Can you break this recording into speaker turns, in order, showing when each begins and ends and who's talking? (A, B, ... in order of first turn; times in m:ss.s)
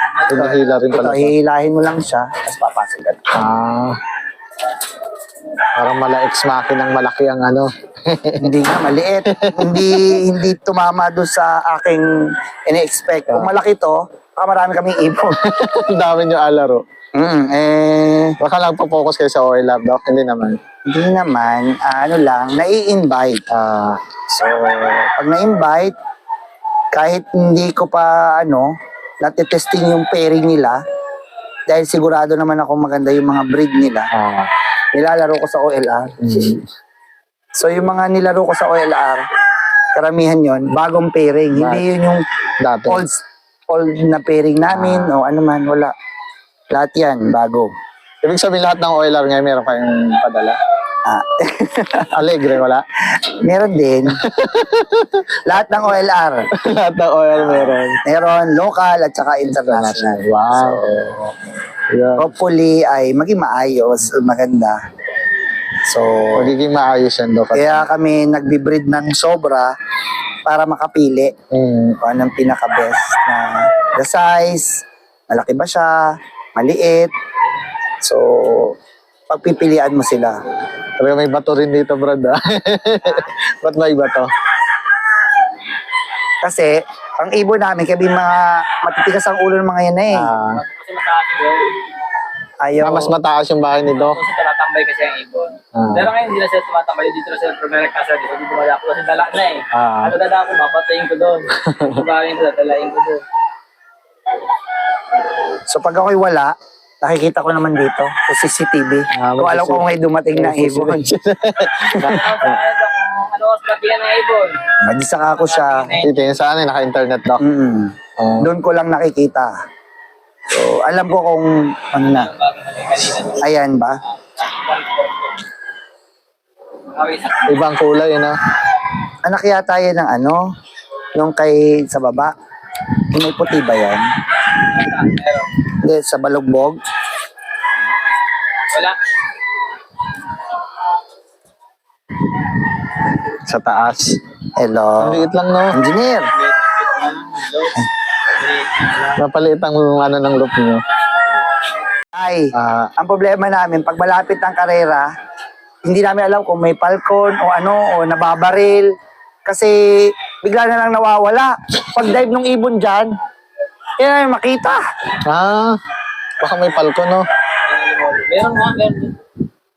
0:00.2-0:00.6 A
0:00.3-0:01.3 B
0:00.3-0:03.3 C
0:03.3-0:04.0 B
0:05.8-0:08.6 B
0:08.4-0:12.1 C
0:09.3-0:10.2 B
0:12.7-0:15.4 C
0:13.3-0:13.5 B
0:15.4-0:16.8 B
0:17.2-0:18.4 C
0:18.4-0:20.6 B
0:20.9-0:23.4 C
0:23.5-0:24.0 B
0:24.3-0:25.9 C
0:26.9-0:30.8 C
0:31.7-0:34.1 C
0:34.1-0:34.5 B
0:35.0-0:36.2 C
0:36.2-0:36.6 B
0:37.6-0:39.2 C
0:40.0-0:42.2 C
0:41.5-0:41.8 B
0:42.6-0:43.0 B
0:42.9-0:45.9 C
0:44.7-0:45.2 B
0:46.7-0:47.7 C
0:48.2-0:50.6 B
0:51.1-0:52.3 C
0:52.1-0:52.8 B
0:53.2-0:54.2 C
0:54.2-0:55.4 B
0:55.4-0:56.5 C
0:56.5-0:58.0 B
0:57.4-1:00.9 C
0:59.5-1:01.3 B
1:01.9-1:02.3 B
1:02.2-1:04.8 C
1:05.8-1:06.5 C
1:06.4-1:07.9 B
1:07.5-1:09.7 C
1:10.5-1:11.4 C
1:11.5-1:12.0 B
1:12.0-1:15.9 C
1:16.6-1:17.1 C
1:18.0-1:18.8 C
1:19.3-1:20.4 C
1:21.0-1:24.3 B
1:26.4-1:30.3 C
1:30.1-1:30.6 B
1:30.5-1:31.8 A
1:32.6-1:33.1 C
1:32.8-1:34.2 B
1:33.9-1:43.2 A
1:35.8-1:36.1 B
1:39.7-1:40.2 B
1:41.6-1:42.0 B
1:45.7-1:51.1 C
1:49.2-1:52.6 B
1:52.0-1:54.6 A
1:54.8-1:55.9 C
1:55.4-1:56.2 A
1:56.0-1:57.4 B
1:57.4-1:59.5 C
1:58.2-1:58.5 B
2:00.5-2:02.3 C
2:02.1-2:03.4 A
2:03.4-2:04.0 C
2:04.2-2:05.4 A
2:06.9-2:07.6 A
2:07.5-2:08.4 B
2:09.2-2:10.4 C
2:11.2-2:12.3 C
2:13.1-2:14.1 C
2:14.6-2:15.5 A
2:15.7-2:16.8 C
2:18.7-2:19.0 A
2:23.4-2:24.2 B
2:24.6-2:26.3 C
2:25.0-2:25.8 B
2:26.4-2:29.1 A
2:29.2-2:30.8 B
2:32.1-2:35.1 C
2:32.5-2:32.9 B
2:35.9-2:38.9 C
2:39.5-2:43.1 C
2:44.0-2:44.8 C
2:45.2-2:45.8 B
2:46.4-2:47.3 B
2:47.7-2:49.2 A